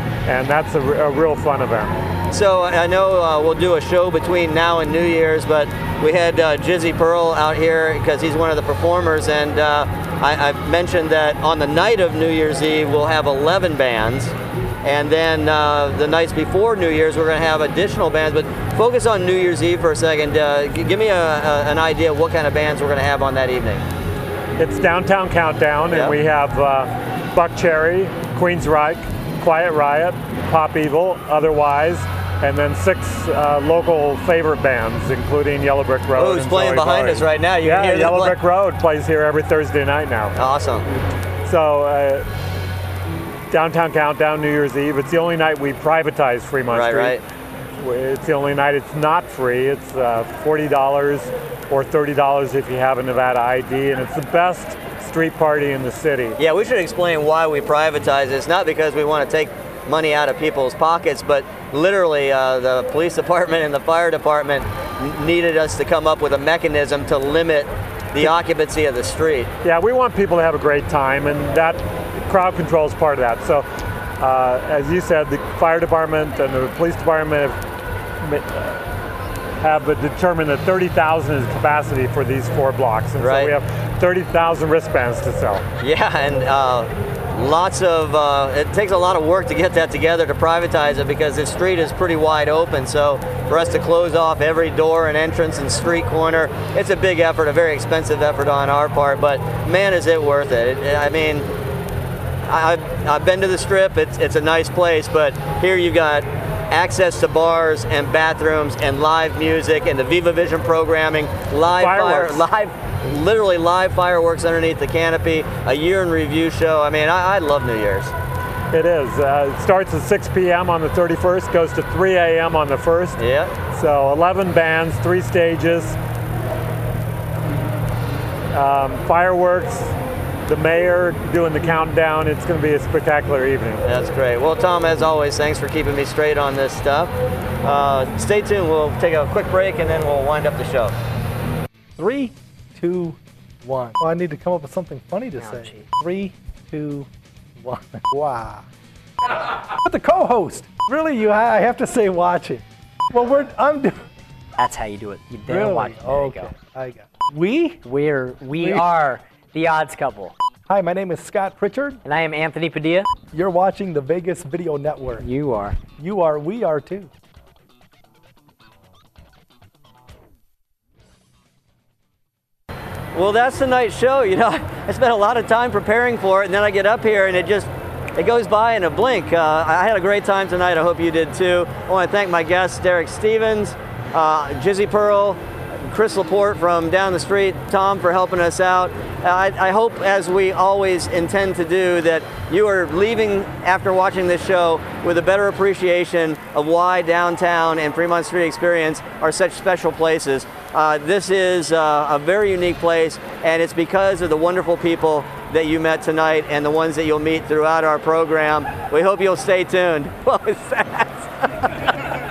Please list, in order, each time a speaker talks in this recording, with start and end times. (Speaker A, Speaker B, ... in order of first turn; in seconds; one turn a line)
Speaker A: 0.2-1.9
Speaker B: 2.3-23.9
Speaker A: 24.6-40.4
Speaker B: 36.1-38.3
Speaker B: 40.4-40.8
Speaker A: 41.4-42.3
Speaker A: 43.5-47.2
Speaker B: 46.7-47.2
Speaker A: 47.8-56.4
Speaker B: 56.4-69.5
Speaker A: 69.6-73.6
Speaker A: 74.2-77.6
Speaker A: 78.2-78.8
Speaker A: 79.6-85.6
Speaker B: 83.2-83.5
Speaker B: 85.8-101.5
Speaker B: 102.5-118.1
Speaker A: 111.7-112.4
Speaker A: 118.7-126.0
Speaker B: 123.2-123.5
Speaker A: 128.5-129.9
Speaker A: 130.4-134.0
Speaker B: 133.8-140.9
Speaker C: 142.0-148.7
Speaker D: 145.4-145.9
Speaker C: 149.8-154.0
Speaker D: 154.6-156.6
Speaker C: 155.5-157.8
Speaker D: 157.8-160.3
Speaker C: 158.6-158.9
Speaker C: 160.7-162.0
Speaker D: 162.0-163.1
Speaker C: 163.3-165.3
Speaker D: 165.2-165.8
Speaker C: 166.0-167.1
Speaker B: 173.1-211.9